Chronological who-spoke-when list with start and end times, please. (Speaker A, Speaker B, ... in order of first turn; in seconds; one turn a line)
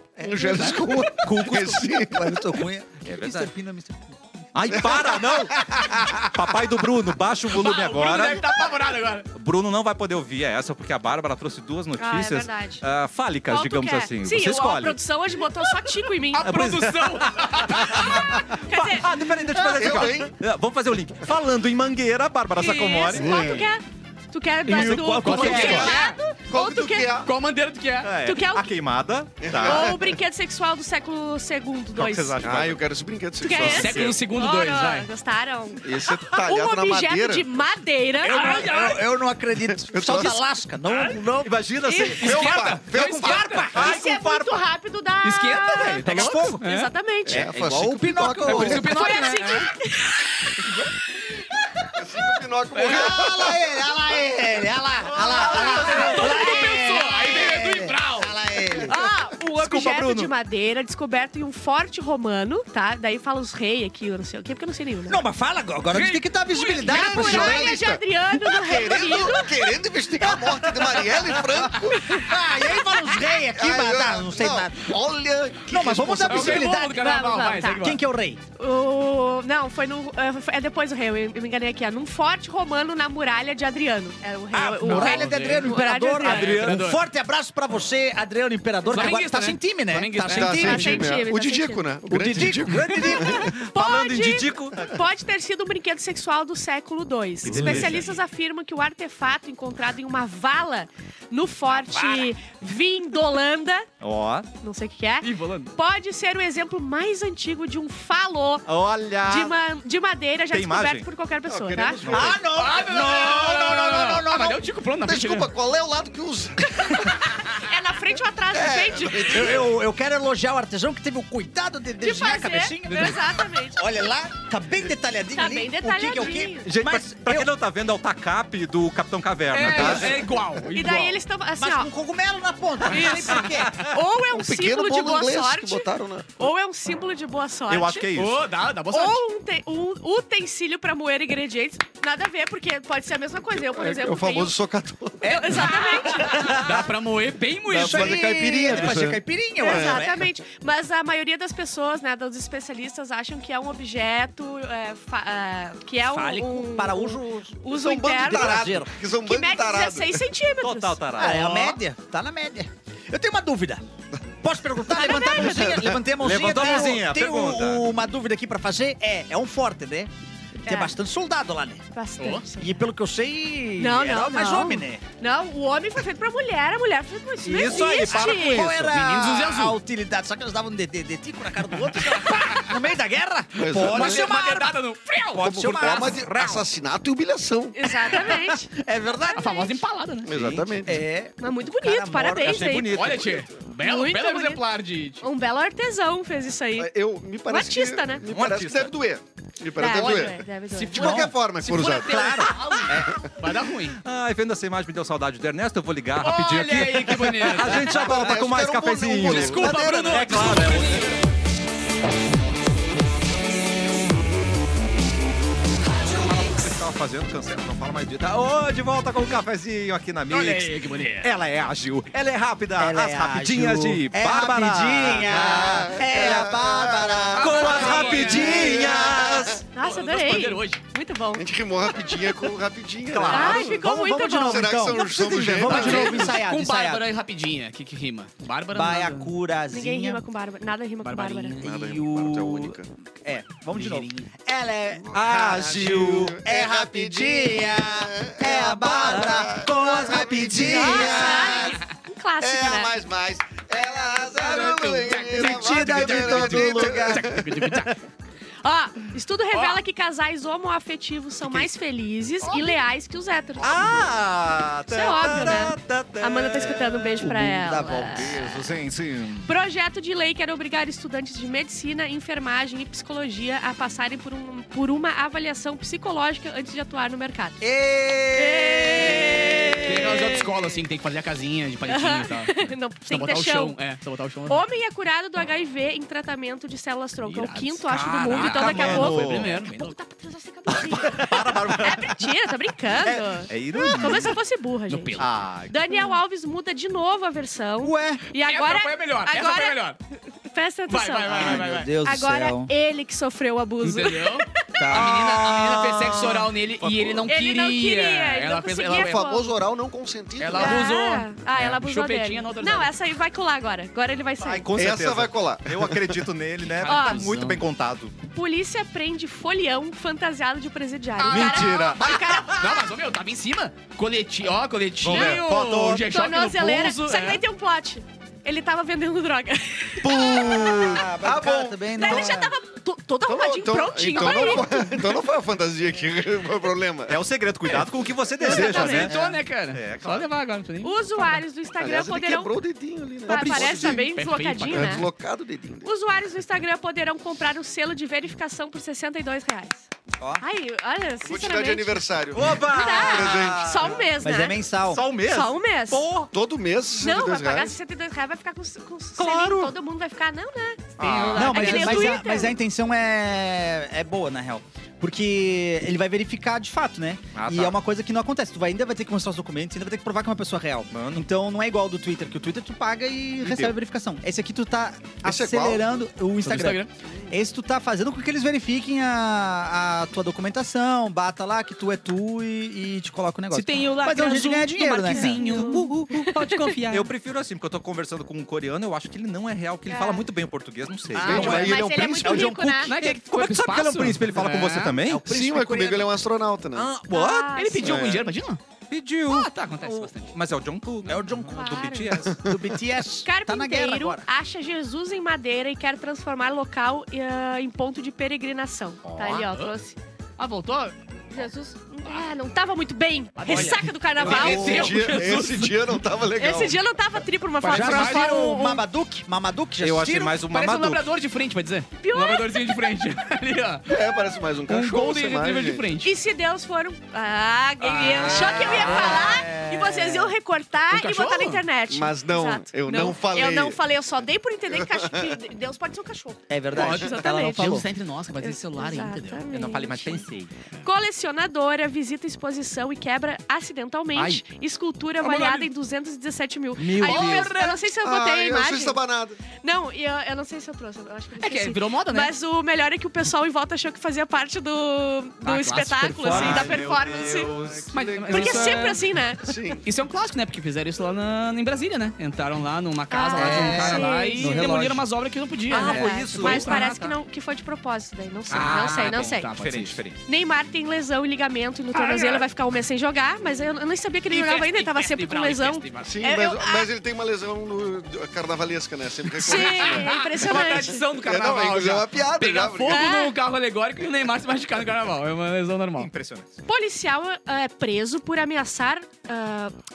Speaker A: 0.2-0.9
Speaker B: 0.2-2.4
Speaker C: 0.4-1.1
Speaker D: 1.1-1.9
Speaker A: 2.0-4.2
Speaker D: 3.0-3.5
Speaker D: 4.5-8.5
Speaker B: 4.7-6.2
Speaker C: 7.5-9.3
Speaker D: 9.3-15.0
Speaker E: 12.0-12.8
Speaker E: 13.5-16.5
Speaker C: 16.3-18.2
Speaker D: 16.4-23.6
Speaker E: 17.8-19.1
Speaker B: 19.7-20.3
Speaker E: 22.6-27.2
Speaker A: 24.7-25.9
Speaker D: 24.7-25.9
Speaker C: 25.2-26.2
Speaker B: 25.5-27.3
Speaker C: 27.2-28.1
Speaker D: 28.0-30.0
Speaker E: 28.2-28.7
Speaker B: 29.4-30.1
Speaker E: 29.6-32.4
Speaker D: 31.9-32.8
Speaker B: 32.4-34.1
Speaker E: 33.4-38.6
Speaker D: 33.5-34.1
Speaker C: 33.6-35.1
Speaker B: 35.8-37.5
Speaker C: 38.2-39.0
Speaker A: 38.2-41.6
Speaker B: 39.7-40.4
Speaker C: 40.9-41.1
Speaker D: 41.4-44.6
Speaker E: 41.9-42.3
Speaker C: 42.2-43.7
Speaker B: 42.4-42.8
Speaker A: 42.9-44.0
Speaker E: 43.7-47.5
Speaker C: 45.2-46.9
Speaker A: 46.0-46.6
Speaker B: 47.2-48.9
Speaker A: 47.3-48.9
Speaker C: 48.4-49.7
Speaker E: 48.7-51.4
Speaker B: 51.9-53.7
Speaker C: 52.7-53.2
Speaker A: 52.8-58.9
Speaker D: 55.1-56.4
Speaker C: 55.4-58.3
Speaker E: 55.6-57.4
Speaker E: 58.8-65.2
Speaker D: 59.4-60.3
Speaker A: 65.1-67.8
Speaker C: 65.9-66.6
Speaker E: 66.6-69.7
Speaker B: 66.8-72.2
Speaker A: 70.2-74.9
Speaker B: 73.5-76.7
Speaker A: 75.7-77.0
Speaker C: 76.3-78.0
Speaker E: 76.9-77.8
Speaker A: 77.8-78.4
Speaker E: 78.5-86.6
Speaker A: 84.5-91.1
Speaker C: 84.8-87.0
Speaker D: 86.3-86.8
Speaker C: 88.9-91.0
Speaker B: 90.3-93.5
Speaker E: 90.5-91.9
Speaker A: 92.0-93.4
Speaker E: 92.9-103.8
Speaker D: 93.0-94.9
Speaker D: 97.4-98.1
Speaker D: 104.0-104.5
Speaker E: 104.6-108.7
Speaker C: 105.2-105.7
Speaker D: 108.7-109.5
Speaker E: 109.2-112.1
Speaker D: 110.5-111.1
Speaker B: 111.5-112.5
Speaker D: 112.0-112.3
Speaker A: 112.1-114.6
Speaker C: 112.5-115.5
Speaker B: 115.0-117.3
Speaker E: 116.8-119.6
Speaker B: 118.5-119.7
Speaker A: 119.2-127.5
Speaker E: 122.0-123.8
Speaker E: 125.3-126.7
Speaker D: 126.6-130.2
Speaker C: 129.5-131.2
Speaker A: 129.8-130.0
Speaker E: 130.7-131.9
Speaker A: 131.6-133.8
Speaker E: 132.8-138.1
Speaker D: 133.4-133.8
Speaker B: 134.3-136.5
Speaker D: 137.7-138.4
Speaker C: 138.1-139.2
Speaker E: 138.9-144.5
Speaker B: 143.5-145.5
Speaker A: 145.2-146.9
Speaker E: 145.2-146.6
Speaker C: 146.3-148.3
Speaker B: 147.7-150.1
Speaker A: 147.7-150.2
Speaker E: 149.6-161.0
Speaker A: 156.0-157.6
Speaker B: 157.7-160.2
Speaker A: 158.2-158.9
Speaker D: 160.6-161.8
Speaker A: 161.2-163.8
Speaker A: 164.4-170.1
Speaker E: 164.9-165.8
Speaker B: 165.4-166.0
Speaker D: 166.2-167.8
Speaker E: 170.6-170.9
Speaker A: 170.7-171.8
Speaker E: 171.9-172.7
Speaker C: 172.2-172.4
Speaker A: 172.6-175.0
Speaker E: 173.8-178.7
Speaker D: 177.4-178.9
Speaker A: 177.6-186.6
Speaker C: 178.7-179.8
Speaker C: 182.3-182.7
Speaker B: 183.6-184.3
Speaker C: 183.7-185.6
Speaker B: 185.4-188.3
Speaker D: 185.8-186.2
Speaker E: 187.7-188.7
Speaker A: 188.1-189.6
Speaker E: 189.3-189.7
Speaker C: 189.3-190.4
Speaker B: 190.2-191.0
Speaker D: 190.3-190.8
Speaker A: 190.8-192.8
Speaker E: 191.4-193.2
Speaker D: 192.4-193.5
Speaker C: 192.9-195.2
Speaker E: 193.8-194.6
Speaker E: 195.2-196.9
Speaker B: 196.8-203.1
Speaker E: 197.5-198.2
Speaker D: 198.3-198.9
Speaker E: 199.8-201.2
Speaker C: 199.9-204.0
Speaker A: 200.9-203.2
Speaker D: 202.1-202.4
Speaker D: 204.0-211.2
Speaker C: 206.2-207.9
Speaker B: 207.7-210.8
Speaker C: 209.2-211.2
Speaker D: 216.1-226.5
Speaker C: 220.3-221.3
Speaker A: 222.8-228.9
Speaker B: 225.2-229.6
Speaker C: 227.3-228.9
Speaker D: 227.3-229.6
Speaker E: 229.7-231.4
Speaker C: 229.8-230.8
Speaker B: 231.3-236.4
Speaker D: 233.1-233.6
Speaker A: 233.1-237.0
Speaker E: 233.3-235.1
Speaker C: 235.6-239.3
Speaker A: 238.7-240.2
Speaker E: 239.7-241.6
Speaker C: 241.0-241.7
Speaker B: 241.6-242.9
Speaker A: 241.6-251.8
Speaker C: 243.7-244.2
Speaker B: 245.0-251.8
Speaker D: 245.1-246.4
Speaker E: 250.6-252.9
Speaker B: 252.4-257.4
Speaker C: 254.3-258.0
Speaker A: 255.3-257.5
Speaker E: 258.6-264.1
Speaker C: 259.5-259.8
Speaker C: 262.4-262.8
Speaker D: 263.6-267.2
Speaker E: 264.9-268.6
Speaker A: 267.2-268.4
Speaker D: 268.1-269.5
Speaker E: 269.4-277.6
Speaker A: 277.6-280.1
Speaker E: 278.3-280.6
Speaker C: 279.8-284.6
Speaker E: 281.9-283.8
Speaker E: 284.5-299.8
Speaker C: 287.2-290.0
Speaker D: 287.9-289.6
Speaker D: 290.7-292.3
Speaker D: 293.0-294.4
Speaker C: 294.9-295.3
Speaker D: 295.2-295.8
Speaker A: 297.8-298.2
Speaker C: 298.4-300.0
Speaker E: 300.4-304.9
Speaker C: 300.9-301.9
Speaker A: 301.3-302.7
Speaker C: 303.8-309.2
Speaker A: 304.8-305.5
Speaker D: 304.9-307.3
Speaker E: 307.3-309.5
Speaker B: 308.9-310.9
Speaker C: 310.4-312.9
Speaker E: 310.5-314.7
Speaker D: 314.4-318.1
Speaker B: 314.7-316.2
Speaker C: 316.6-317.6
Speaker E: 316.8-317.3
Speaker E: 318.3-322.9
Speaker C: 321.2-321.9
Speaker D: 321.3-322.6
Speaker C: 322.5-327.4
Speaker D: 325.0-326.1
Speaker E: 325.1-325.4
Speaker E: 326.0-330.9
Speaker B: 330.0-332.4
Speaker A: 330.6-332.5
Speaker E: 331.9-335.0
Speaker B: 333.2-337.2
Speaker D: 337.1-340.3
Speaker E: 338.4-339.1
Speaker B: 338.5-339.3
Speaker C: 338.5-341.4
Speaker E: 340.8-342.5
Speaker B: 341.8-344.0
Speaker E: 343.2-345.1
Speaker C: 343.3-345.1
Speaker B: 344.7-345.9
Speaker E: 345.8-349.9
Speaker E: 350.4-352.0
Speaker B: 351.2-354.1
Speaker D: 352.3-354.0
Speaker E: 352.6-354.6
Speaker A: 354.2-355.0
Speaker D: 354.9-356.3
Speaker E: 355.2-356.1
Speaker B: 356.3-357.8
Speaker E: 356.9-362.5
Speaker D: 359.2-359.7
Speaker D: 361.0-362.2
Speaker C: 361.0-362.1
Speaker A: 361.3-385.5
Speaker D: 367.3-367.8
Speaker D: 370.9-371.2
Speaker B: 375.2-375.9
Speaker C: 376.4-376.9
Speaker C: 383.5-387.1
Speaker E: 385.1-385.9
Speaker D: 385.5-391.8
Speaker E: 389.9-390.2
Speaker C: 391.1-391.7
Speaker B: 391.1-392.5
Speaker E: 391.3-392.9
Speaker A: 391.4-392.9
Speaker D: 392.8-395.2
Speaker C: 392.8-394.9
Speaker A: 395.0-396.1
Speaker B: 395.2-396.9
Speaker D: 396.7-397.6
Speaker E: 397.1-398.0
Speaker C: 397.5-398.6
Speaker B: 397.8-398.3
Speaker D: 398.9-402.4
Speaker C: 399.3-400.3
Speaker A: 401.1-404.2
Speaker E: 401.4-402.2
Speaker B: 402.3-402.6
Speaker E: 403.2-410.0
Speaker D: 409.0-409.5
Speaker C: 409.5-409.7
Speaker C: 410.4-410.9
Speaker E: 411.3-415.2
Speaker C: 413.4-415.8
Speaker D: 414.2-414.5
Speaker B: 414.2-416.8
Speaker E: 416.4-418.8
Speaker C: 417.6-418.3
Speaker A: 417.7-420.4
Speaker D: 419.8-421.1
Speaker C: 420.5-423.9
Speaker E: 422.0-422.6
Speaker B: 423.9-425.9
Speaker C: 424.7-426.1
Speaker E: 426.0-437.8
Speaker C: 427.8-429.1
Speaker D: 428.0-429.1
Speaker A: 428.1-430.4
Speaker C: 430.9-431.6
Speaker B: 431.9-433.8
Speaker B: 434.7-435.3
Speaker A: 436.5-437.9
Speaker C: 436.7-439.4
Speaker E: 438.4-440.2
Speaker D: 439.5-440.5
Speaker E: 440.8-449.0
Speaker D: 444.1-444.4
Speaker C: 445.2-445.7
Speaker D: 446.8-447.6
Speaker C: 447.0-447.8
Speaker B: 448.0-449.4
Speaker E: 449.6-457.6
Speaker C: 451.4-452.3
Speaker C: 455.4-456.8
Speaker D: 456.2-457.9
Speaker B: 457.1-459.8
Speaker C: 457.9-459.1
Speaker E: 458.3-459.6
Speaker C: 459.8-466.9
Speaker E: 463.1-464.6
Speaker A: 463.3-465.0
Speaker E: 465.7-469.5
Speaker D: 465.7-467.2
Speaker C: 468.5-470.0
Speaker D: 468.5-470.2
Speaker E: 470.2-476.9
Speaker C: 471.9-472.4
Speaker C: 474.3-476.1
Speaker B: 476.0-483.1
Speaker E: 479.4-481.1
Speaker C: 479.4-486.1
Speaker E: 482.9-483.3
Speaker D: 486.0-486.6
Speaker E: 486.6-489.7